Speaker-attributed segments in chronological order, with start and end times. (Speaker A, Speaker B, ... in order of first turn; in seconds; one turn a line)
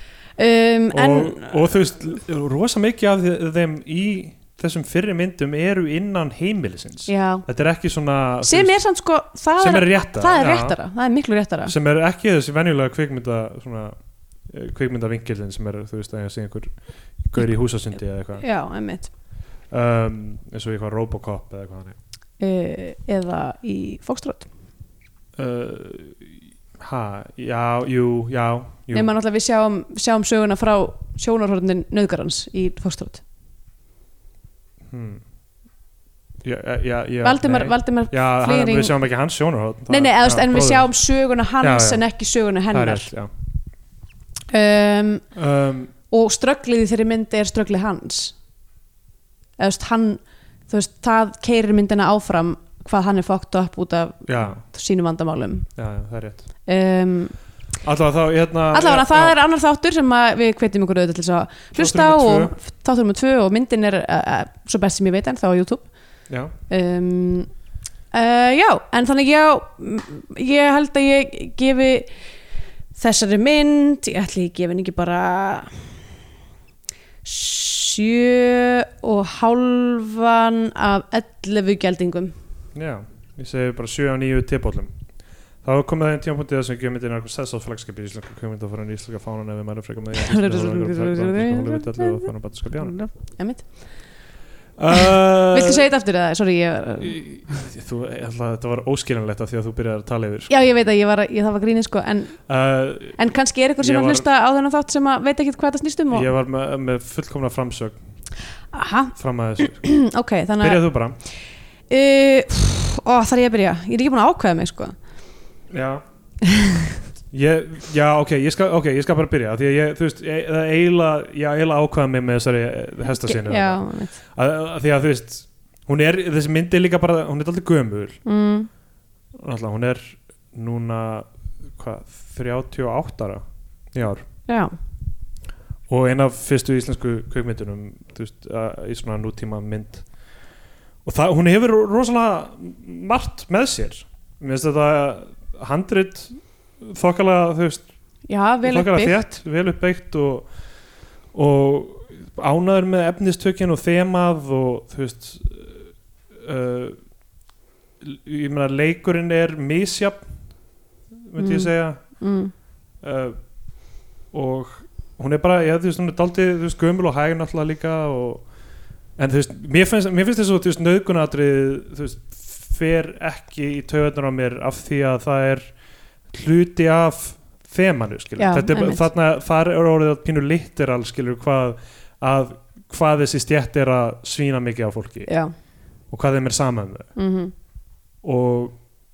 Speaker A: 0.4-1.6
Speaker B: 0.9-8.8
Speaker A: 7.1-7.5
Speaker A: 8.4-11.7
Speaker B: 9.6-10.8
Speaker B: 11.7-13.9
Speaker B: 14.5-18.4
Speaker A: 18.4-19.1
Speaker B: 19.7-22.0
Speaker A: 22.4-24.5
Speaker B: 25.4-26.2
Speaker B: 26.8-29.1
Speaker A: 28.9-33.2
Speaker B: 34.9-35.2
Speaker B: 36.4-40.9
Speaker A: 37.2-38.9
Speaker A: 39.9-43.1
Speaker B: 41.6-42.0
Speaker B: 42.7-43.3
Speaker A: 44.5-45.2
Speaker B: 45.3-45.9
Speaker A: 46.1-48.4
Speaker A: 49.6-55.7
Speaker B: 54.3-54.6
Speaker B: 55.8-56.5
Speaker A: 56.7-57.4
Speaker B: 57.8-59.4
Speaker A: 58.7-65.9
Speaker B: 61.8-62.5
Speaker A: 66.7-67.5
Speaker A: 68.1-72.1
Speaker A: 73.0-75.8
Speaker A: 77.2-82.3
Speaker B: 82.8-84.9
Speaker B: 85.6-93.0
Speaker A: 90.2-92.3
Speaker A: 92.8-93.8
Speaker B: 94.8-95.8
Speaker A: 94.9-97.2
Speaker B: 97.0-100.5
Speaker A: 100.5-102.4
Speaker B: 102.5-103.2
Speaker A: 103.2-106.3
Speaker B: 103.8-104.2
Speaker B: 106.1-108.0
Speaker A: 108.7-110.8
Speaker B: 109.2-109.9
Speaker B: 110.6-111.2
Speaker A: 111.9-114.9
Speaker B: 115.7-116.0
Speaker A: 116.4-116.9
Speaker B: 117.3-128.2
Speaker A: 123.2-124.2
Speaker A: 128.3-128.7
Speaker B: 129.4-133.4
Speaker B: 133.9-134.2
Speaker A: 134.5-134.7
Speaker B: 135.9-140.1
Speaker B: 141.0-147.9
Speaker A: 148.3-149.2
Speaker B: 148.6-150.5
Speaker B: 151.3-155.8
Speaker B: 156.4-157.0
Speaker B: 158.0-160.3
Speaker B: 161.3-162.0
Speaker A: 161.4-162.5
Speaker B: 163.0-163.4
Speaker B: 164.3-168.4
Speaker B: 169.2-175.7
Speaker B: 176.3-185.3
Speaker A: 178.4-179.1
Speaker A: 185.3-185.5
Speaker B: 186.1-187.1
Speaker A: 187.2-187.5
Speaker B: 188.2-188.8